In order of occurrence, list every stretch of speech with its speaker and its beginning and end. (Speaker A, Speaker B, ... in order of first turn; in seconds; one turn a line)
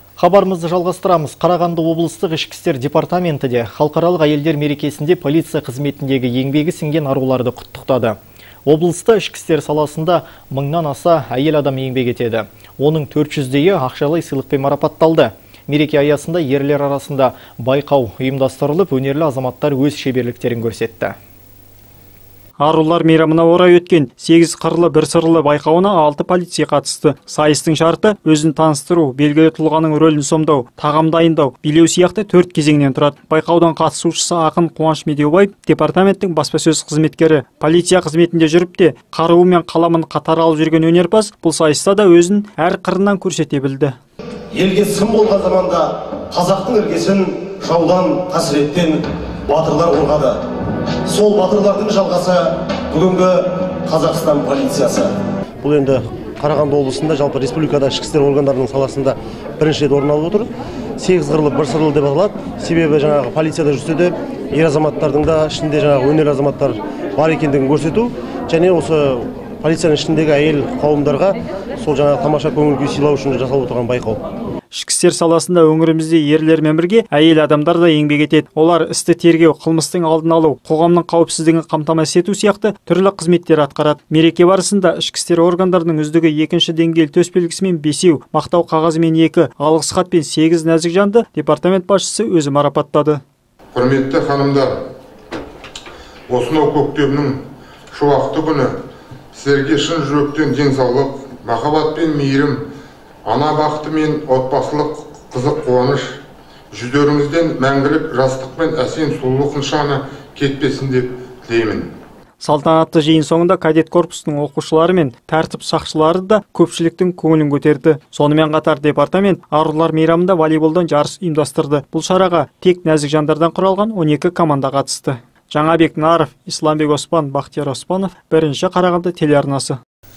Speaker A: 0.2-21.1
Speaker B: 22.6-44.0
Speaker C: 44.5-50.4
Speaker C: 51.0-74.2
Speaker B: 74.7-93.2
Speaker D: 93.7-94.8
Speaker D: 96.3-97.4
Speaker D: 97.9-98.8
Speaker D: 99.3-102.6
Speaker D: 103.2-106.1
Speaker D: 106.7-111.9
Speaker B: 112.4-129.8